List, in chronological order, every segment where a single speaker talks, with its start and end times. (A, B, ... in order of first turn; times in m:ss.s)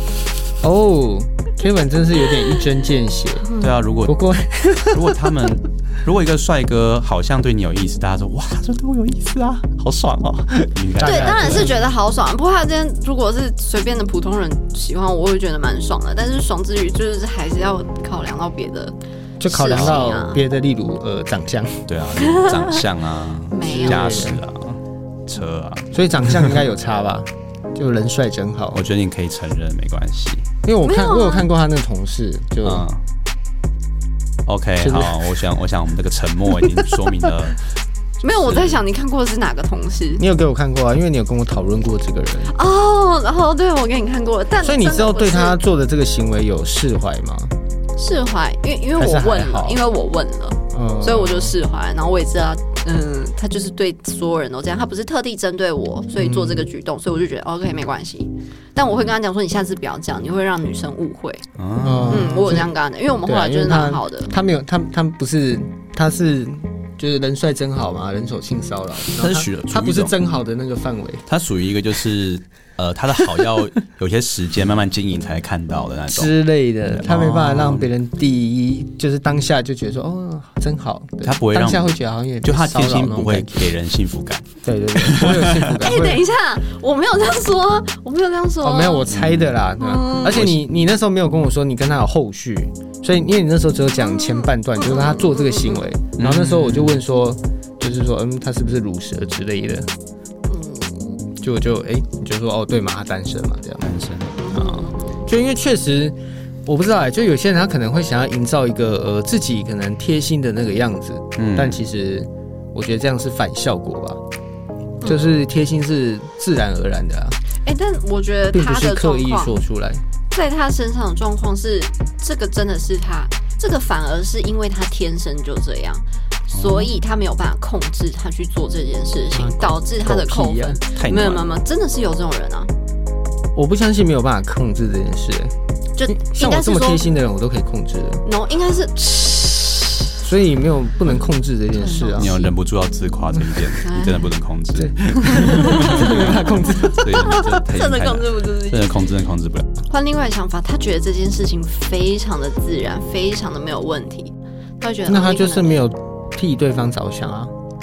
0:00.6-0:03.5 A
0:03.6-0:04.2 B
0:04.0-0:05.5 A
0:04.9-0:11.8 B
0:11.0-0:11.8 A
0:11.0-0:20.4 C
0:19.4-0:21.9 A
0:19.7-0:20.0 B
0:21.9-0:26.6 B
0:22.2-0:22.8 C
0:23.5-0:24.4 C
0:23.6-0:24.4 A
0:25.9-0:28.8 A
0:28.7-0:30.5 B
0:30.6-0:32.9 A
0:30.8-0:31.5 C
0:32.6-0:33.0 B
0:34.5-0:37.6 B
0:34.8-0:35.3 A
0:38.2-0:40.2 C
0:38.2-0:38.8 B
0:40.2-0:42.5 A
0:42.5-0:45.6 C
0:44.6-0:47.5 A
0:48.0-1:01.4 C
0:49.0-0:49.8 A
0:50.7-0:51.5 A
0:56.2-0:56.7 A
1:01.6-1:02.6 B
1:01.8-1:02.7 A
1:02.1-1:04.3 C
1:03.2-1:11.2 A
1:09.2-1:10.2 B
1:11.3-1:17.9 B
1:16.1-1:23.6 A
1:21.2-1:25.8 B
1:24.6-1:26.2 A
1:25.8-1:29.1 C
1:28.6-1:39.9 A
1:29.1-1:29.5 B
1:29.8-1:30.4 C
1:30.3-1:30.6 B
1:34.0-1:35.8 C
1:36.2-1:37.0 B
1:40.5-1:41.2 C
1:41.4-1:43.9 A
1:43.8-1:44.9 B
1:44.4-1:45.3 C
1:45.3-1:54.2 A
1:51.4-1:51.8 B
1:55.0-1:57.4 A
1:57.6-1:59.6 C
1:58.5-2:00.0 A
2:00.3-2:12.7 C
2:06.5-2:06.9 B
2:09.3-2:10.8 A
2:11.0-2:11.5 B
2:13.6-2:15.5 A
2:16.0-2:17.1 C
2:16.1-2:18.2 A
2:18.2-2:20.1 C
2:20.2-2:22.5 A
2:21.8-2:22.5 C
2:22.1-2:29.7 B
2:23.8-2:24.3 C
2:24.8-2:27.6 A
2:25.3-2:29.0 C
2:29.9-2:35.8 C
2:35.1-2:37.5 A